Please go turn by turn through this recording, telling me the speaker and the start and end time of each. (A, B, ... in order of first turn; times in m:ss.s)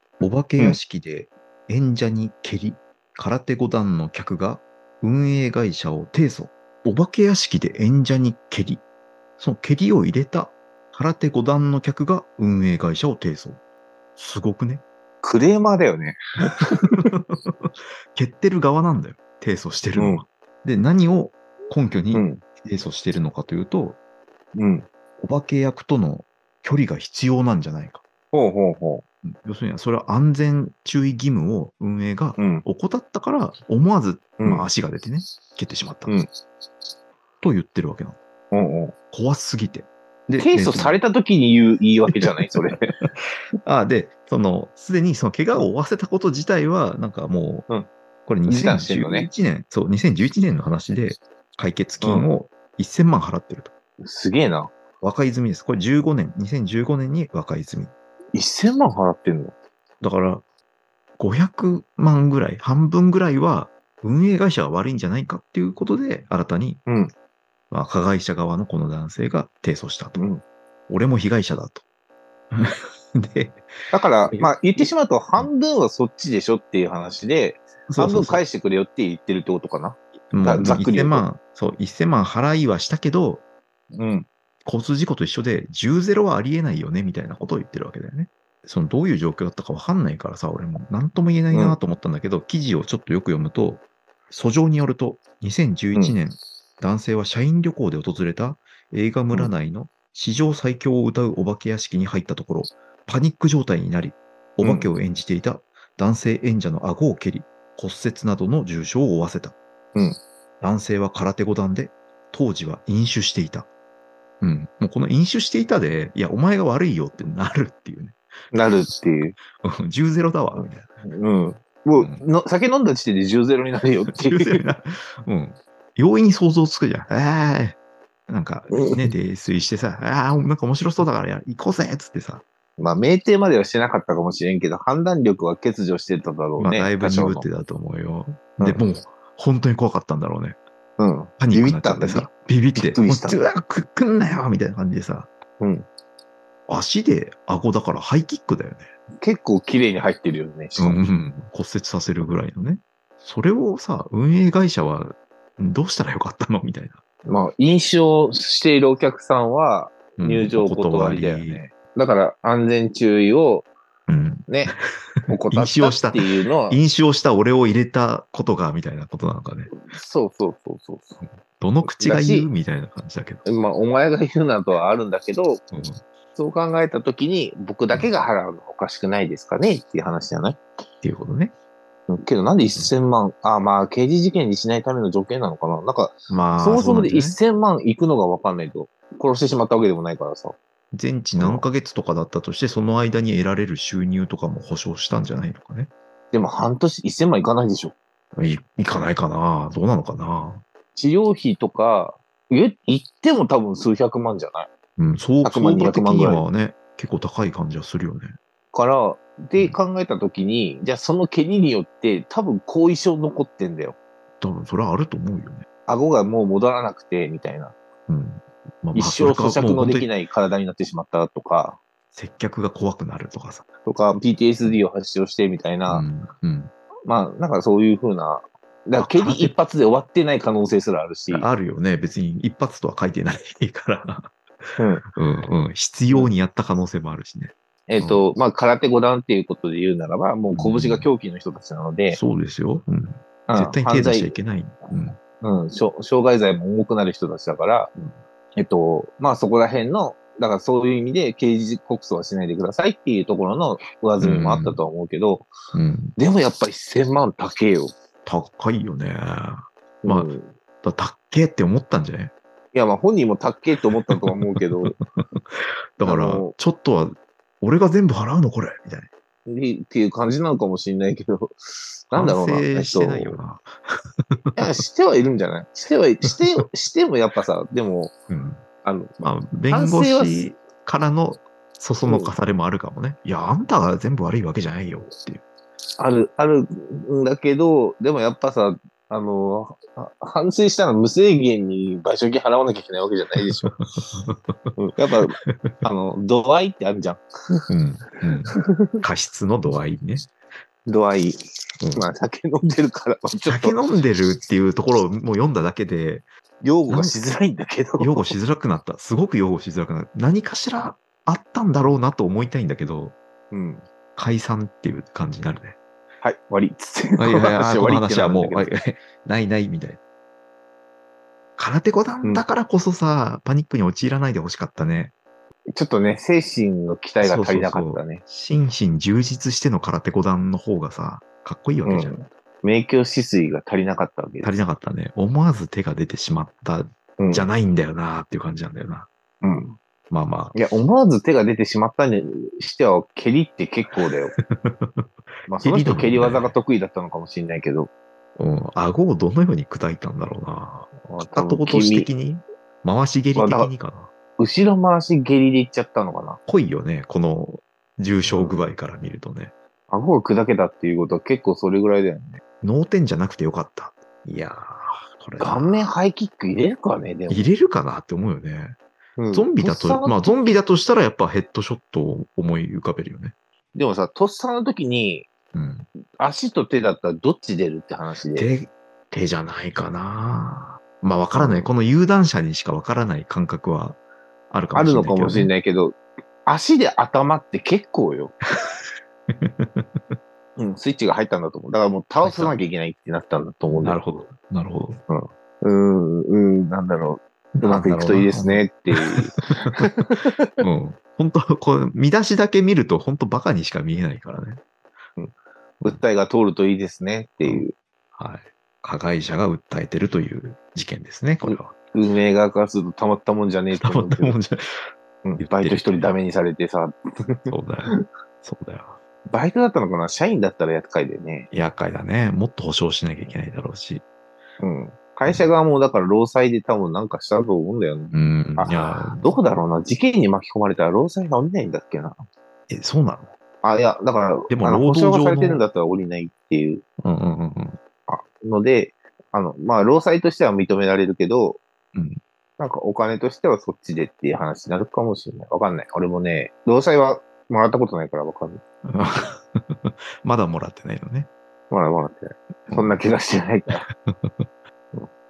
0:00.2-0:08.8 A
0:09.4-0:13.6 A
0:14.2-0:14.8 A
0:15.2-0:17.1 B
0:17.0-0:24.0 A
0:20.0-0:20.2 B
0:22.1-0:22.4 B
0:24.5-0:24.9 B
0:25.2-0:28.0 A
0:28.3-0:29.0 B
0:29.2-0:36.2 A
0:32.4-0:32.6 B
0:34.4-0:34.6 B
0:37.4-0:38.2 A
0:38.5-0:38.9 B
0:39.1-0:41.0 A
0:40.4-0:42.9 B
0:42.1-0:42.6 A
0:43.6-0:47.7 A
0:48.2-0:53.7 A
0:48.5-0:49.3 B
0:52.0-0:52.3 B
0:54.0-0:54.7 B
0:55.0-0:57.9 A
0:58.3-0:59.5 B
1:00.0-1:00.4 A
1:01.2-1:06.8 A
1:06.9-1:07.1 B
1:07.7-1:10.2 A
1:10.2-1:10.4 B
1:10.9-1:11.8 A
1:12.5-1:13.6 A
1:13.9-1:21.2 B
1:14.3-1:15.5 A
1:17.9-1:18.4 A
1:20.3-1:23.4 A
1:23.9-1:24.3 B
1:24.6-1:49.6 A
1:31.5-1:31.8 B
1:44.6-1:44.9 B
1:50.6-1:53.7 A
1:54.4-1:58.2 A
1:58.5-1:59.4 B
1:59.6-2:00.8 A
2:00.5-2:04.6 B
2:02.0-2:02.2 A
2:04.1-2:12.4 A
2:08.7-2:09.1 B
2:12.8-2:17.4 B
2:16.6-2:20.6 A
2:21.0-2:23.4 B
2:21.4-2:25.3 A
2:25.6-2:25.8 B
2:26.7-2:28.9 A
2:29.2-2:31.0 B
2:30.8-2:37.0 A
2:37.2-2:43.7 B
2:40.2-2:41.6 A
2:44.1-2:49.7 A
2:44.5-2:44.7 B
2:45.3-2:46.8 B
2:49.7-2:51.2 B
2:51.2-2:53.4 A
2:51.8-2:52.5 B
2:53.4-2:55.6 B
2:55.7-2:56.0 A
2:56.4-3:00.6 B
3:01.0-3:01.5 A
3:02.1-3:10.6 B
3:06.3-3:07.4 A
3:10.9-3:15.9 A
3:11.4-3:11.6 B
3:16.3-3:17.9 B
3:18.3-3:20.6 A
3:20.9-3:24.7 B
3:25.0-3:28.3 A
3:25.4-3:26.4 B
3:28.7-3:34.0 B
3:34.4-3:35.6 A
3:35.9-3:37.7 B
3:38.1-3:40.1 A
3:38.9-3:41.8 B
3:42.1-3:43.6 A
3:43.8-3:46.0 B
3:45.9-3:46.7 A
3:47.0-3:51.4 B
3:49.0-3:49.5 A
3:51.3-3:54.3 A
3:54.8-3:55.0 B
3:55.1-3:58.2 A
3:57.9-4:02.2 B
4:00.5-4:01.1 A
4:02.1-4:05.2 A
4:03.5-4:04.4 B
4:05.2-4:07.9 B
4:08.6-4:15.5 B
4:14.2-4:14.8 A
4:15.7-4:16.1 A
4:16.2-4:17.9 B
4:18.2-4:20.3 A
4:20.0-4:20.5 B
4:20.8-4:22.3 A
4:22.7-4:25.0 B
4:25.4-4:29.1 A
4:26.0-4:26.5 B
4:29.4-4:33.4 B
4:32.1-4:34.6 A
4:34.6-4:38.1 B
4:38.3-4:38.6 A
4:38.8-4:39.1 B
4:39.2-4:45.4 A
4:39.7-4:40.5 B
4:42.0-4:42.3 B
4:46.0-4:53.7 B
4:53.7-4:54.7 A
4:54.8-4:57.2 B
4:55.5-4:55.8 A
4:57.7-5:00.3 A
5:00.8-5:03.8 B
5:03.4-5:06.2 A
5:06.6-5:08.4 B
5:06.9-5:07.2 A
5:08.0-5:13.2 A
5:13.5-5:13.8 B
5:14.2-5:15.8 A
5:16.2-5:18.7 B
5:17.2-5:20.0 A
5:21.6-5:25.1 A
5:25.8-5:28.2 B
5:27.2-5:32.2 A
5:31.8-5:34.5 B
5:34.4-5:39.1 A
5:37.2-5:37.5 B
5:39.4-5:39.8 B
5:40.1-5:40.6 A
5:40.5-5:44.3 B
5:44.4-5:45.0 A
5:45.5-5:47.9 B
5:45.6-5:46.5 A
5:48.4-5:54.1 A
5:51.0-5:52.1 B
5:53.4-5:53.7 B
5:54.4-5:56.4 B
5:56.5-5:59.5 A
5:58.2-5:58.6 B
5:59.9-6:02.4 B
6:02.6-6:05.9 A
6:05.4-6:07.5 B
6:07.3-6:08.8 A
6:09.2-6:10.5 B
6:09.3-6:13.3 A
6:13.7-6:15.3 B
6:15.5-6:15.9 A
6:16.2-6:18.5 B
6:18.3-6:25.5 A
6:21.4-6:21.7 B
6:24.7-6:28.3 B
6:28.6-6:30.2 A
6:30.6-6:34.0 B
6:32.2-6:32.6 A
6:33.8-6:35.0 A
6:35.1-6:40.6 B
6:37.6-6:39.9 A
6:40.6-6:44.6 A
6:45.2-6:47.7 B
6:48.2-6:51.8 A
6:51.4-6:54.3 B
6:53.7-6:56.0 A
6:55.2-6:58.0 B
6:57.5-6:59.0 A
6:59.3-7:01.5 B
7:01.5-7:04.0 A
7:04.6-7:12.2 B
7:08.1-7:09.4 A
7:12.7-7:13.3 A
7:13.6-7:16.8 B
7:14.5-7:15.6 A
7:17.0-7:17.8 A
7:18.1-7:21.6 B
7:21.9-7:22.2 A
7:22.6-7:28.6 B
7:28.8-7:31.3 A
7:31.7-7:33.8 B
7:32.7-7:33.0 A
7:34.0-7:34.5 A